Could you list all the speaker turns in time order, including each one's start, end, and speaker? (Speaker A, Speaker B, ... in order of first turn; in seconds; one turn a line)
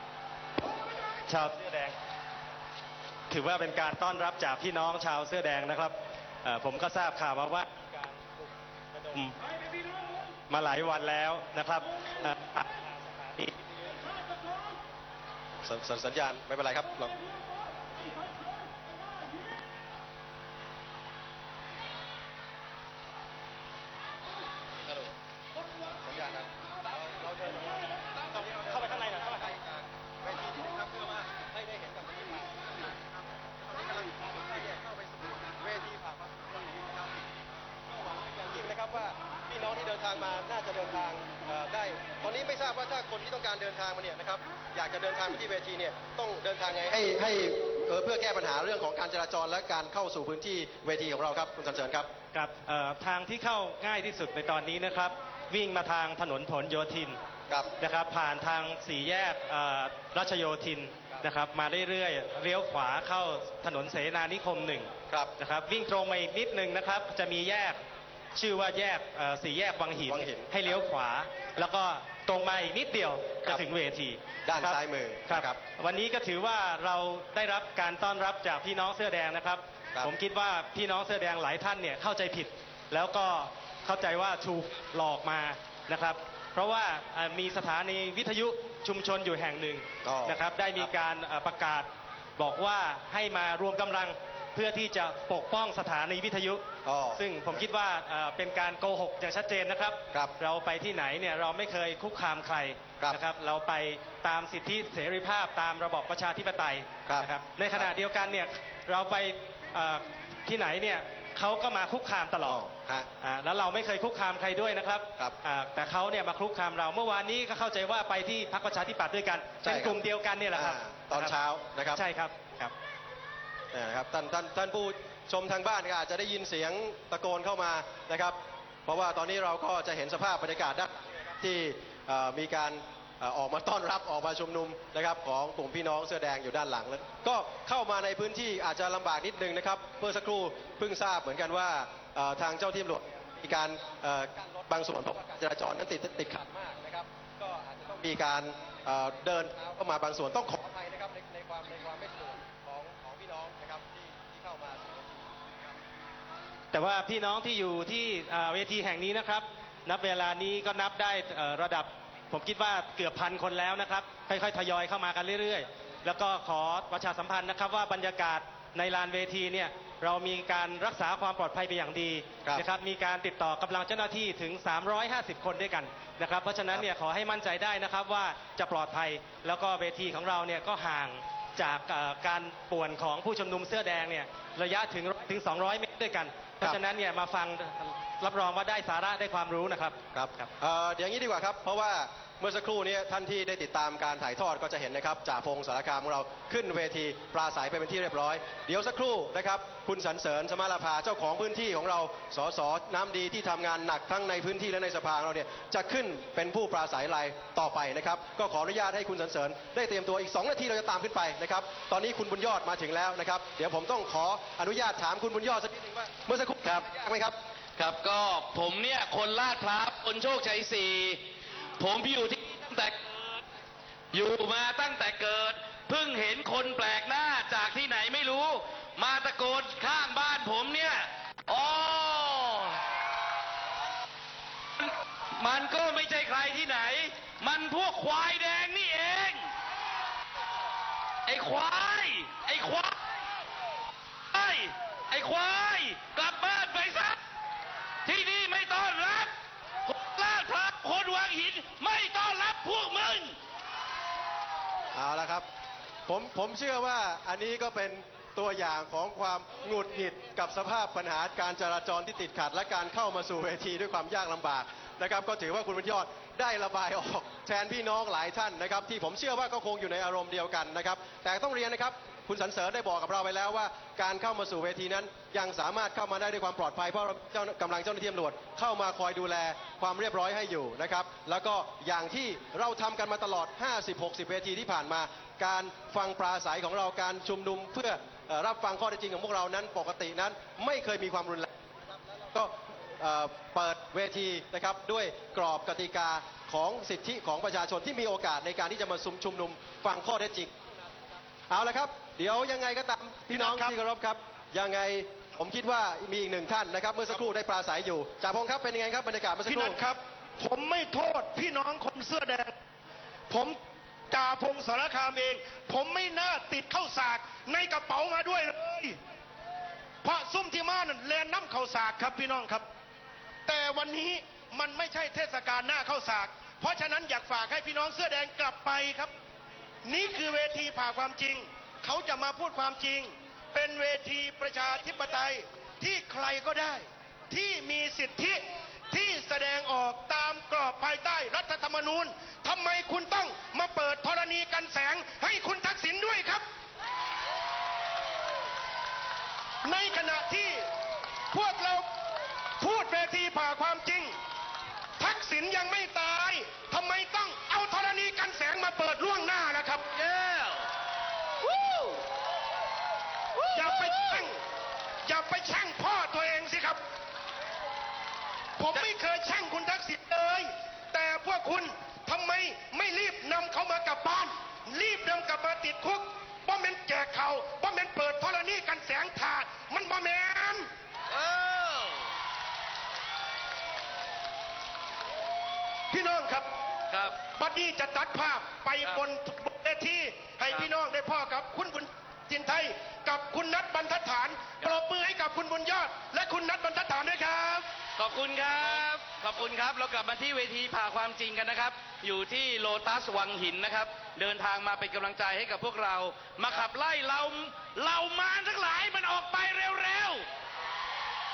Speaker A: 1.2-1.9
Speaker A: 3.3-8.4
Speaker A: 9.0-9.3
Speaker A: 10.5-13.7
Speaker B: 15.6-17.1
Speaker B: 26.0-37.2
Speaker A: 28.6-29.5
Speaker B: 37.9-52.1
Speaker A: 52.3-57.2
Speaker A: 57.8-67.8
Speaker A: 68.3-96.6
Speaker B: 70.1-70.8
Speaker B: 74.5-75.6
Speaker B: 90.0-90.9
Speaker B: 96.8-97.6
Speaker A: 97.2-112.6
Speaker B: 107.1-107.9
Speaker B: 112.4-113.1
Speaker A: 113.2-121.3
Speaker B: 119.6-120.0
Speaker B: 120.5-122.0
Speaker A: 121.9-122.7
Speaker B: 123.7-155.7
Speaker A: 156.7-190.5
Speaker B: 190.1-217.3
Speaker C: 217.8-221.2
Speaker C: 221.8-223.4
Speaker C: 224.1-232.8
Speaker C: 234.8-239.5
Speaker C: 241.2-243.0
Speaker C: 244.3-247.2
Speaker C: 248.0-249.3
Speaker C: 249.8-253.4
Speaker B: 254.9-255.4
Speaker B: 256.1-300.6
Speaker B: 301.5-309.8
Speaker D: 303.3-303.7
Speaker D: 309.4-312.5
Speaker D: 313.3-313.6
Speaker D: 314.1-319.0
Speaker D: 320.0-322.6
Speaker D: 323.5-329.1
Speaker D: 329.8-338.4
Speaker D: 338.9-346.4
Speaker D: 349.6-350.6
Speaker D: 351.3-351.9
Speaker D: 352.6-354.1
Speaker D: 355.0-359.8
Speaker C: 359.9-360.7
Speaker C: 361.4-362.0
Speaker C: 363.3-364.3
Speaker D: 363.5-364.4
Speaker D: 365.1-366.8
Speaker D: 368.6-380.7
Speaker C: 381.1-382.1
Speaker D: 385.9-386.5
Speaker C: 386.9-387.1
Speaker D: 387.3-397.7
Speaker C: 398.0-410.3